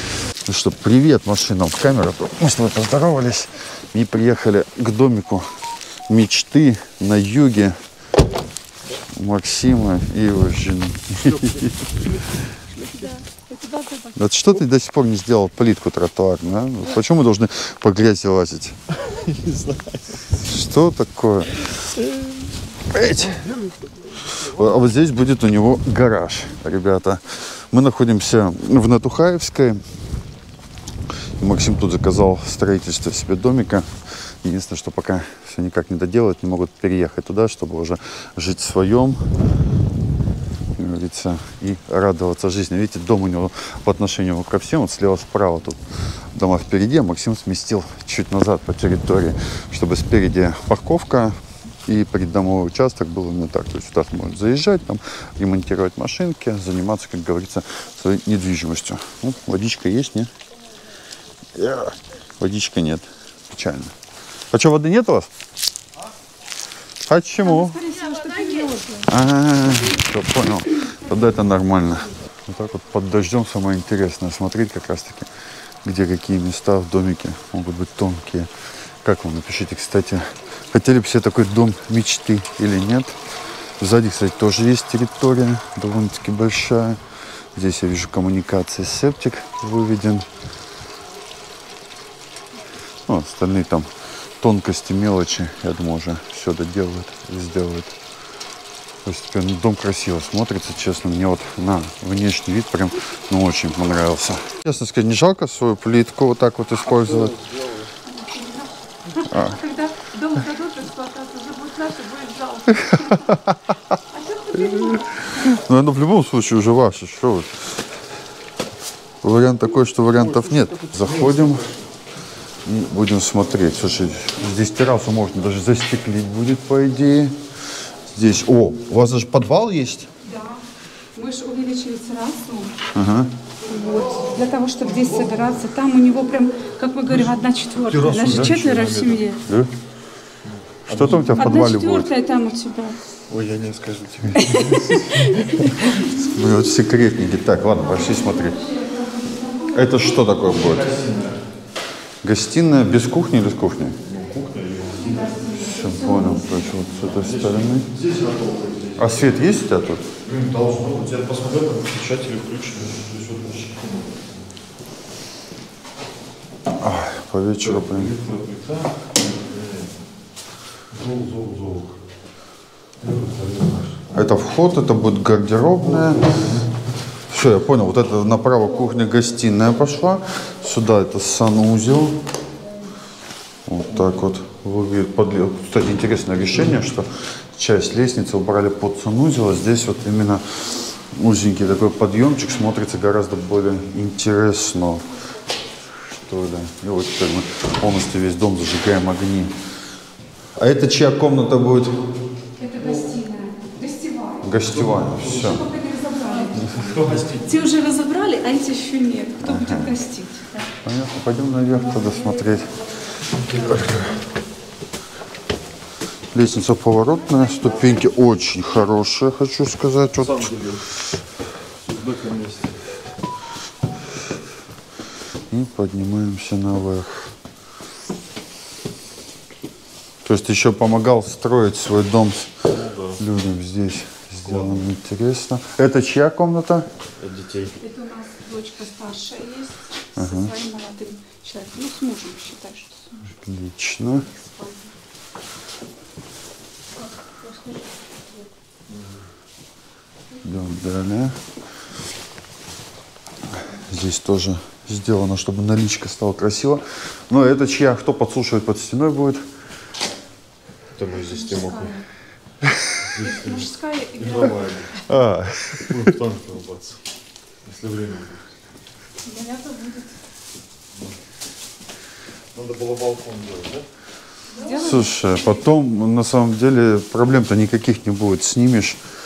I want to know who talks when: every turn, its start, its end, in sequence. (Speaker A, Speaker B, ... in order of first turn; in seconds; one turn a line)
Speaker A: 0.4-5.5
Speaker A: 6.1-7.8
Speaker A: 9.1-11.7
Speaker B: 12.8-14.1
Speaker A: 14.1-18.8
Speaker C: 19.0-20.1
Speaker A: 20.3-21.7
Speaker C: 22.1-22.4
Speaker A: 22.9-23.4
Speaker A: 24.3-29.8
Speaker A: 31.4-39.2
Speaker A: 40.8-45.8
Speaker A: 46.3-60.3
Speaker A: 61.5-63.9
Speaker A: 64.5-65.3
Speaker A: 67.0-67.8
Speaker B: 67.5-69.1
Speaker A: 69.0-75.3
Speaker A: 75.8-78.5
Speaker A: 79.0-83.2
Speaker A: 83.8-87.0
Speaker A: 87.5-90.3
Speaker A: 93.1-93.9
Speaker A: 94.4-97.9
Speaker A: 99.0-107.3
Speaker C: 107.0-107.9
Speaker B: 108.1-113.3
Speaker A: 109.2-109.6
Speaker A: 112.7-113.6
Speaker B: 114.1-115.1
Speaker A: 114.5-117.7
Speaker A: 119.2-121.7
Speaker C: 120.2-121.7
Speaker A: 122.6-127.3
Speaker A: 128.1-130.1
Speaker B: 130.2-132.8
Speaker A: 132.9-133.3
Speaker B: 133.6-139.4
Speaker C: 137.1-139.2
Speaker A: 138.2-138.5
Speaker A: 139.4-139.7
Speaker C: 140.4-141.6
Speaker A: 140.9-142.1
Speaker B: 141.3-143.0
Speaker C: 143.3-144.9
Speaker B: 144.4-145.4
Speaker A: 145.9-148.7
Speaker B: 148.4-150.1
Speaker A: 149.7-150.9
Speaker C: 150.3-151.4
Speaker A: 152.2-154.0
Speaker C: 154.0-155.5
Speaker B: 155.1-156.7
Speaker A: 155.6-157.9
Speaker C: 156.9-159.4
Speaker A: 159.0-160.1
Speaker C: 160.2-164.3
Speaker A: 166.8-168.1
Speaker C: 167.6-170.0
Speaker C: 170.9-171.9
Speaker C: 173.0-174.1
Speaker A: 174.1-176.4
Speaker C: 175.8-176.7
Speaker A: 177.3-182.2
Speaker A: 183.7-195.1
Speaker A: 196.0-199.5
Speaker A: 200.6-202.0
Speaker B: 202.6-204.4
Speaker A: 204.4-205.7
Speaker C: 204.8-205.2
Speaker B: 205.2-206.7
Speaker A: 206.5-206.9
Speaker C: 206.7-207.7
Speaker B: 207.4-210.7
Speaker A: 209.4-210.0
Speaker A: 210.8-212.8
Speaker A: 213.4-214.2
Speaker A: 216.3-220.5
Speaker C: 220.2-220.8
Speaker C: 221.8-222.9
Speaker A: 225.5-227.3
Speaker A: 230.2-236.9
Speaker C: 232.7-233.2
Speaker C: 234.4-234.8
Speaker C: 237.2-237.8
Speaker B: 237.8-243.2
Speaker A: 240.2-240.5
Speaker A: 243.2-244.3
Speaker B: 244.3-244.8
Speaker B: 247.3-247.8
Speaker A: 250.4-251.4
Speaker A: 253.6-259.4
Speaker C: 260.9-262.0
Speaker B: 261.4-262.0
Speaker C: 263.1-265.0
Speaker B: 263.1-264.7
Speaker A: 265.0-266.1
Speaker C: 265.9-267.0
Speaker C: 267.6-268.4
Speaker B: 269.2-270.1
Speaker C: 272.5-273.9
Speaker B: 274.6-275.6
Speaker A: 274.7-279.0